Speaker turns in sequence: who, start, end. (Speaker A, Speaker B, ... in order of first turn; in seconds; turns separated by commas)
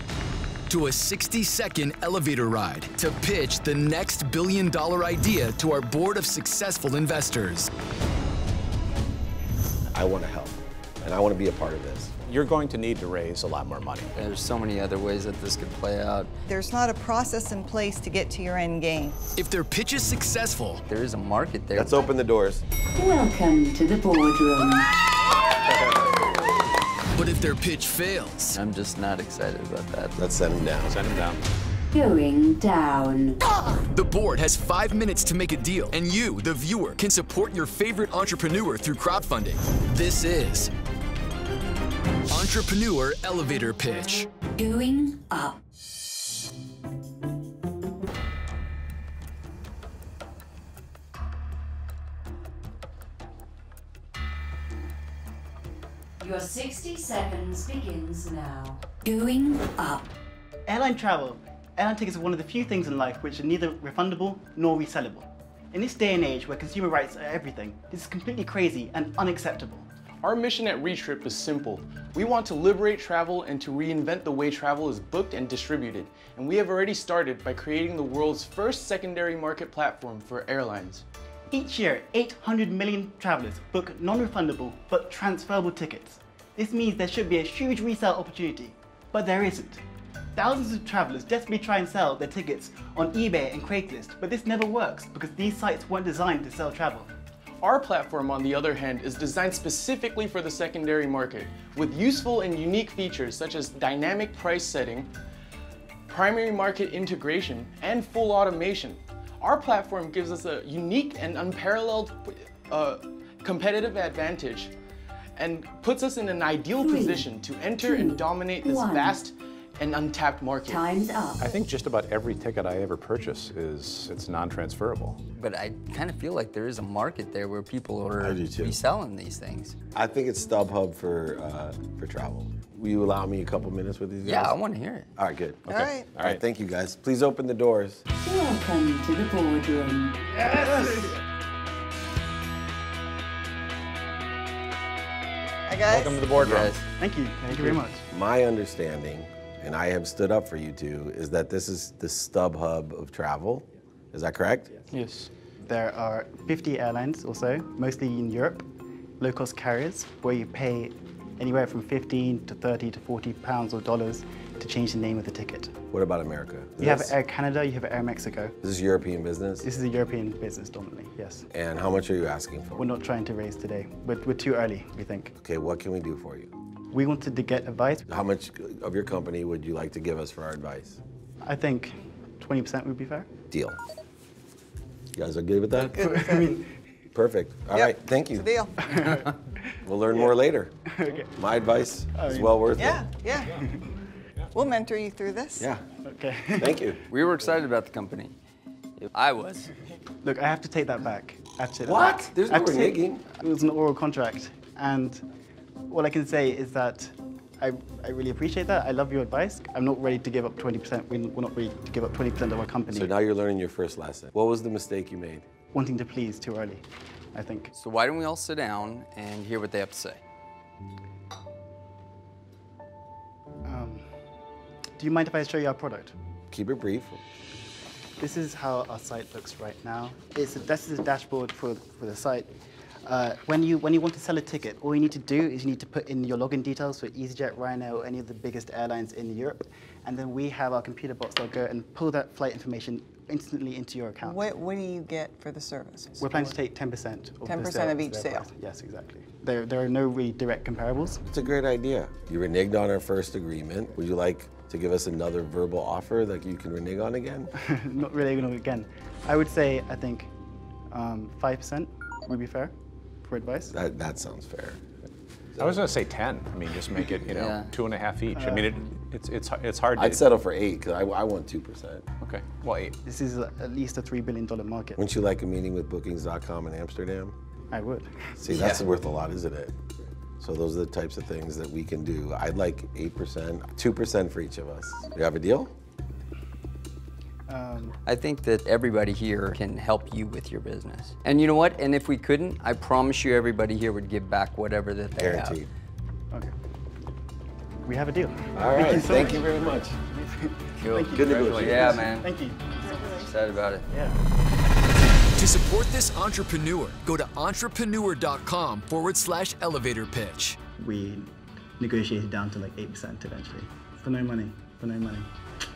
Speaker A: 0.7-7.7, Speaker B: 9.9-12.1, Speaker C: 12.3-14.1, Speaker D: 14.1-16.3, Speaker E: 16.5-19.2, Speaker A: 19.3-20.8, Speaker D: 20.9-22.0, Speaker B: 21.7-22.6, Speaker F: 22.9-24.9, Speaker A: 27.1-28.6, Speaker D: 28.5-30.2, Speaker B: 30.1-31.0, Speaker C: 30.8-31.4, Speaker F: 31.9-33.4, Speaker A: 33.9-40.7, Speaker A: 42.3-44.3, Speaker F: 44.6-45.6, Speaker F: 56.2-60.1, Speaker G: 60.7-69.9, Speaker H: 70.2-81.0, Speaker G: 81.5-89.8, Speaker G: 90.3-97.1, Speaker H: 97.6-105.1, Speaker H: 106.1-114.7, Speaker H: 115.4-120.8, Speaker F: 116.8-119.2, Speaker F: 120.6-121.5, Speaker C: 121.4-125.2, Speaker D: 125.3-129.7, Speaker B: 128.2-128.8, Speaker B: 129.9-134.6, Speaker D: 134.2-135.1, Speaker B: 135.2-138.0, Speaker C: 135.7-136.4, Speaker E: 135.8-136.1, Speaker F: 138.1-140.4, Speaker G: 140.4-141.1, Speaker E: 145.7-146.2, Speaker C: 145.9-146.8, Speaker D: 146.4-146.8, Speaker G: 147.0-148.0, Speaker B: 148.1-154.7, Speaker H: 154.9-155.3, Speaker G: 155.6-158.7, Speaker G: 159.2-165.8, Speaker B: 165.9-167.1, Speaker G: 166.8-168.6, Speaker B: 168.6-169.7, Speaker G: 169.6-171.4, Speaker B: 171.5-172.8, Speaker G: 172.8-175.3, Speaker B: 175.4-176.5, Speaker G: 176.9-178.1, Speaker B: 178.1-181.0, Speaker G: 181.4-183.3, Speaker B: 183.5-183.8, Speaker B: 185.1-186.0, Speaker E: 185.9-186.6, Speaker G: 186.0-186.7, Speaker B: 187.1-188.5, Speaker E: 187.7-188.8, Speaker G: 188.8-189.3, Speaker B: 189.8-190.7, Speaker G: 190.9-191.3, Speaker B: 191.3-193.0, Speaker G: 192.1-192.7, Speaker E: 192.8-193.5, Speaker G: 193.5-193.8, Speaker E: 194.5-195.7, Speaker G: 196.0-196.9, Speaker B: 196.6-197.0, Speaker D: 197.1-198.3, Speaker D: 199.0-199.7, Speaker G: 200.2-205.2, Speaker B: 201.8-203.2, Speaker G: 205.9-213.1, Speaker B: 212.9-215.4, Speaker G: 215.7-217.7, Speaker D: 217.7-220.2, Speaker G: 223.6-224.1, Speaker G: 225.0-226.1, Speaker B: 226.5-227.2, Speaker G: 228.2-232.5, Speaker G: 233.0-244.4, Speaker E: 244.2-246.5, Speaker G: 246.2-251.2, Speaker E: 247.4-248.5, Speaker B: 251.2-257.5, Speaker G: 257.6-260.3, Speaker G: 260.9-262.7, Speaker G: 263.2-263.7, Speaker B: 263.7-264.8, Speaker C: 265.5-270.2, Speaker D: 267.4-267.7, Speaker G: 268.3-268.9, Speaker B: 269.9-272.0, Speaker C: 272.2-272.9, Speaker G: 273.0-275.0, Speaker B: 274.9-277.3, Speaker G: 277.7-278.4, Speaker B: 278.4-279.7, Speaker D: 278.5-278.8, Speaker B: 280.4-285.7, Speaker G: 287.5-287.9, Speaker D: 288.0-295.6, Speaker B: 295.2-295.7, Speaker G: 297.9-302.9, Speaker B: 298.5-299.9, Speaker D: 300.8-302.3, Speaker B: 301.1-302.1, Speaker E: 302.8-303.3, Speaker D: 303.2-303.9, Speaker G: 303.9-304.2, Speaker A: 305.3-310.6, Speaker G: 310.8-315.3